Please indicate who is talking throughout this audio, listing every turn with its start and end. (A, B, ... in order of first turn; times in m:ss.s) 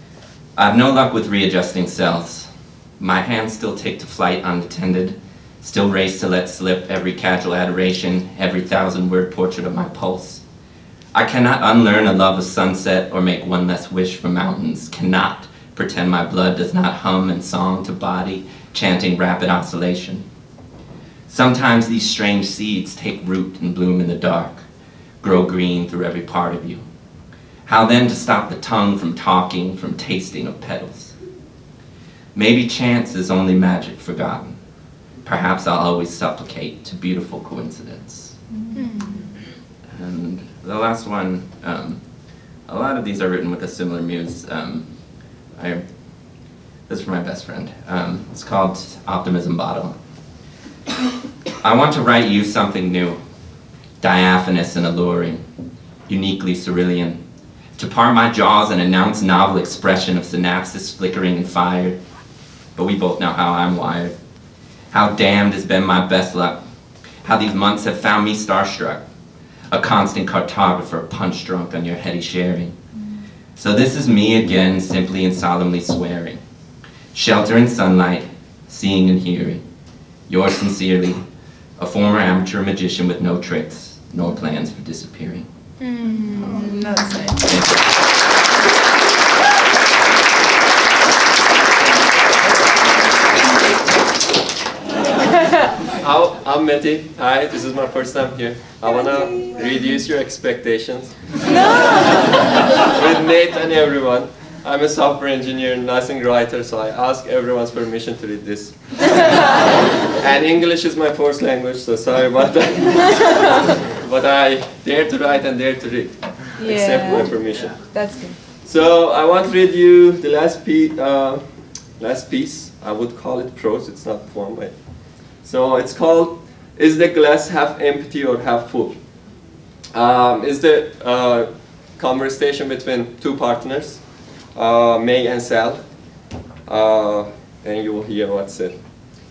0:00.6-0:10.4 A
0:11.1-0:20.2 A
0:21.3-0:24.6 A
0:25.2-0:26.8 A
0:27.7-0:31.1 A
0:32.3-0:34.6 A
0:35.2-0:38.3 A
0:38.7-0:39.2 B
0:39.9-0:42.0 A
0:42.7-0:44.9 A
0:45.6-0:45.8 A
0:46.9-0:50.0 A
0:51.6-0:53.2 A
0:54.0-0:55.4 A
0:56.1-0:57.2 A
0:57.8-1:02.0 A
1:02.8-1:04.2 A
1:04.9-1:06.6 A
1:07.2-1:09.0 A
1:09.7-1:12.7 A
1:13.6-1:16.4 A
1:17.1-1:19.6 A
1:20.3-1:21.2 A
1:21.8-1:25.5 A
1:25.8-1:27.3 B
1:27.4-1:27.9 A
1:36.0-1:41.3 C
1:39.1-1:39.5 B
1:41.5-1:42.0 B
1:42.8-1:57.8 C
1:56.6-1:57.3 B
1:57.9-1:58.4 B
1:58.6-2:01.4 C
2:02.0-2:09.0 C
2:09.9-2:14.0 C
2:14.5-2:15.8 C
2:16.7-2:18.8 C